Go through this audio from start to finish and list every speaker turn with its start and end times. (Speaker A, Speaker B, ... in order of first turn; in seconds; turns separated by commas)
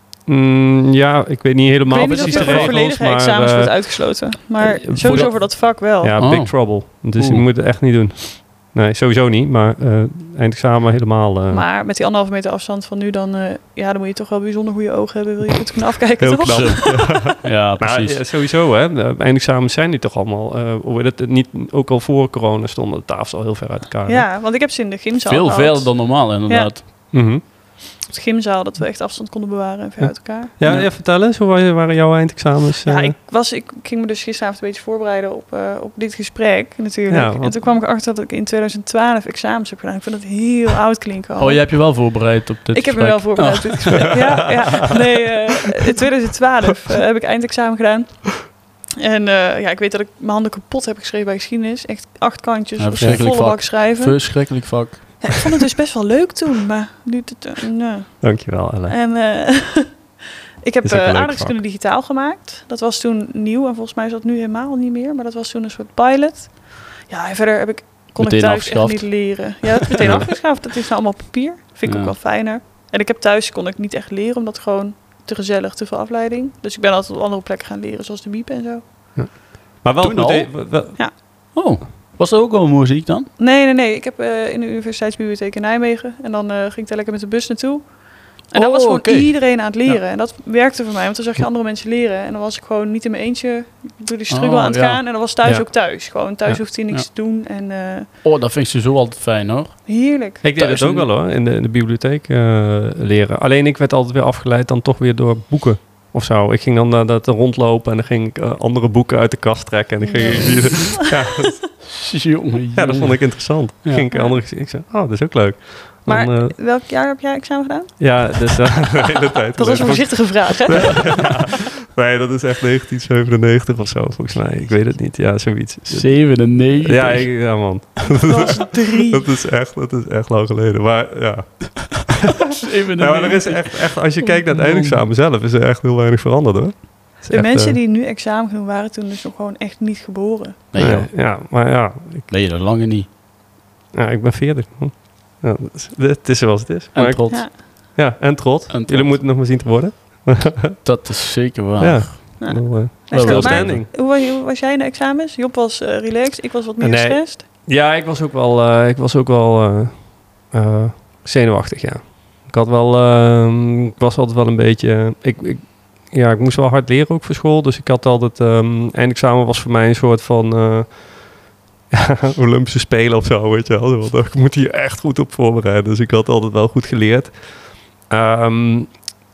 Speaker A: 0.3-11.7, Speaker B: 1.9-6.1, Speaker C: 2.0-2.8, Speaker C: 5.0-5.5, Speaker C: 6.2-7.5, Speaker B: 11.5-17.1, Speaker A: 16.2-24.3, Speaker C: 16.4-18.3, Speaker B: 24.1-26.8, Speaker C: 25.3-26.8, Speaker A: 27.1-27.4, Speaker B: 27.4-30.5, Speaker A: 30.0-33.1, Speaker C: 30.6-30.9, Speaker B: 32.9-42.1, Speaker A: 37.1-37.6, Speaker C: 41.4-44.6, Speaker B: 42.7-79.3, Speaker C: 52.8-55.3, Speaker A: 53.0-53.3, Speaker A: 58.2-59.0, Speaker A: 60.8-61.6, Speaker C: 68.2-70.2, Speaker A: 70.0-70.3, Speaker C: 71.9-72.2, Speaker A: 79.2-81.0, Speaker C: 80.0-83.3, Speaker B: 83.4-98.1, Speaker C: 88.5-89.4, Speaker C: 94.3-95.0, Speaker A: 95.4-95.7, Speaker C: 96.5-97.1, Speaker C: 98.2-99.9, Speaker B: 99.9-101.0, Speaker A: 100.4-111.8, Speaker C: 100.6-101.1, Speaker B: 110.0-111.4, Speaker C: 111.8-114.1, Speaker A: 112.8-116.6, Speaker B: 114.1-114.4, Speaker B: 116.1-118.9, Speaker A: 118.0-132.3, Speaker B: 119.5-121.4, Speaker C: 125.9-127.5, Speaker B: 128.2-129.3, Speaker C: 132.4-135.0, Speaker A: 132.8-137.8, Speaker B: 137.3-140.7, Speaker C: 140.7-141.2, Speaker A: 140.8-142.3, Speaker C: 142.3-143.1, Speaker A: 143.9-150.8, Speaker C: 146.9-147.5, Speaker C: 148.7-149.2, Speaker C: 150.8-152.5, Speaker A: 151.8-153.9, Speaker B: 152.4-157.4, Speaker C: 153.1-153.8, Speaker A: 156.8-171.4, Speaker A: 171.9-179.0